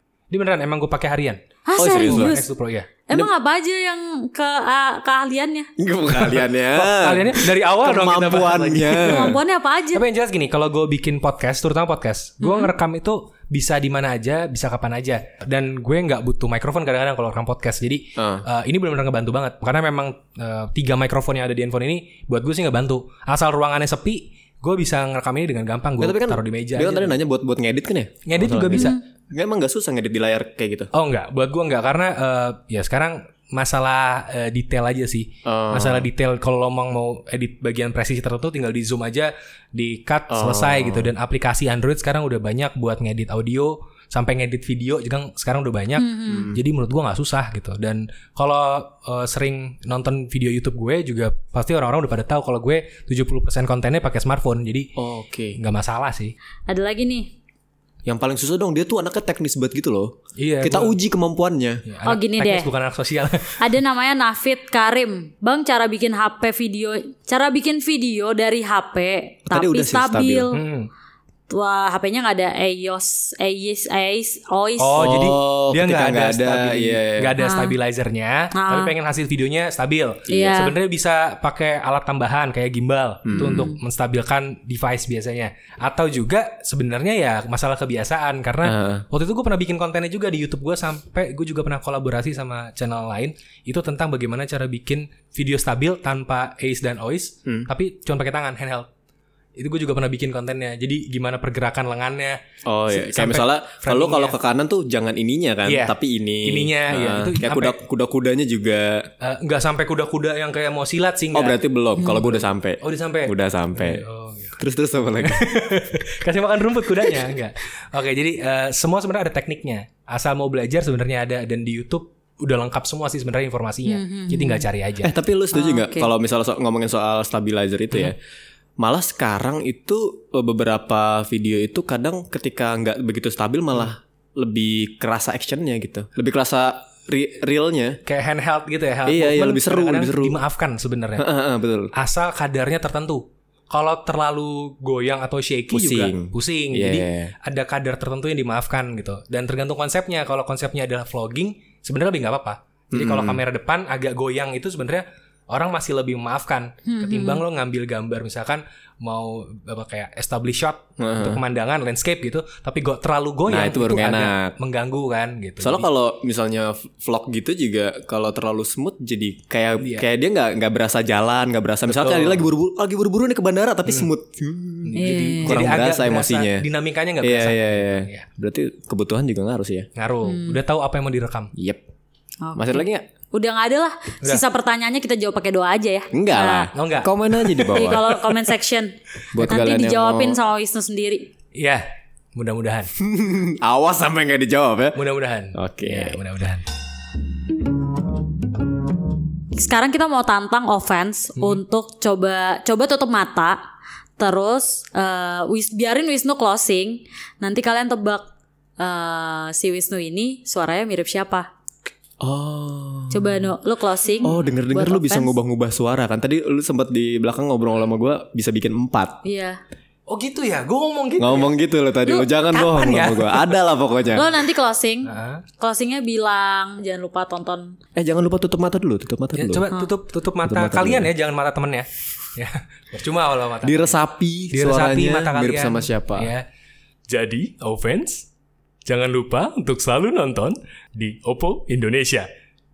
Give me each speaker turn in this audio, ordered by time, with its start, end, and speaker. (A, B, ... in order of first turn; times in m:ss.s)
0:00.3-0:01.4 A
0:01.6-0:02.4 B
0:01.8-0:02.4 C
0:01.9-0:02.9 A
0:03.1-0:05.7 B
0:05.8-0:09.4 C
0:06.1-0:09.4 A
0:09.0-0:10.0 B
0:09.9-0:27.1 A
0:12.4-0:12.7 B
0:18.2-0:18.4 C
0:26.0-0:30.9 C
0:28.3-0:28.9 A
0:28.7-0:29.0 B
0:30.9-0:54.9 A
0:35.4-0:36.1 C
0:40.3-0:41.1 C
0:46.0-0:46.5 B
0:46.3-0:46.6 C
0:55.0-0:55.6 C
0:55.6-0:56.3 A
0:56.7-0:57.3 B
0:58.0-1:01.8 C
1:00.4-1:01.0 A
1:01.9-1:03.7 A
1:02.0-1:02.7 B
1:03.6-1:10.6 B
1:09.5-1:10.5 C
1:10.5-1:10.9 A
1:11.5-1:15.0 B
1:14.8-1:38.9 A
1:15.0-1:17.4 C
1:17.4-1:17.7 B
1:18.5-1:18.9 B
1:20.3-1:20.5 C
1:20.3-1:20.7 B
1:23.2-1:23.7 C
1:23.3-1:23.8 B
1:28.6-1:29.0 C
1:39.6-1:44.4 A
1:42.6-1:49.1 C
1:45.6-1:47.8 A
1:49.2-1:54.6 A
1:51.3-1:54.0 C
1:54.6-1:55.4 C
1:55.2-2:05.1 A
2:03.9-2:04.7 B
2:05.0-2:08.2 C
2:05.5-2:06.1 B
2:08.8-2:18.0 C
2:18.0-2:21.3 A
2:19.0-2:20.4 C
2:21.2-2:21.9 C
2:21.9-2:45.9 A
2:25.7-2:27.3 C
2:32.9-2:33.4 C
2:36.8-2:37.4 B
2:41.0-2:41.4 C
2:43.5-2:44.5 C
2:45.6-2:56.6 C
2:49.8-2:50.0 A
2:51.9-2:52.5 A
2:54.8-2:58.3 A
2:55.0-2:55.6 B
2:57.2-2:59.9 C
3:00.0-3:01.5 A
3:00.2-3:00.6 B
3:01.6-3:01.8 C
3:02.4-3:06.7 B
3:02.6-3:03.0 C
3:06.1-3:08.2 C
3:06.7-3:08.1 A
3:07.7-3:11.3 B
3:09.3-3:10.4 C
3:11.5-3:11.8 A
3:12.4-3:12.9 A
3:13.0-3:15.0 C
3:14.9-3:16.6 A
3:15.5-3:16.2 C
3:19.5-3:23.6 B
3:21.4-3:21.6 A
3:24.2-3:28.2 B
3:28.8-3:31.5 B
3:32.2-3:33.5 C
3:33.1-3:35.3 B
3:34.2-3:39.2 C
3:39.2-3:39.6 B
3:40.1-3:43.6 A
3:41.2-3:44.4 C
3:44.1-3:47.8 B
3:45.0-3:45.4 A
3:47.9-3:49.6 C
3:49.3-3:54.0 A
3:50.4-3:51.1 C
3:53.6-3:56.3 C
3:54.5-3:56.4 A
3:57.1-3:58.2 A
3:58.8-4:02.3 A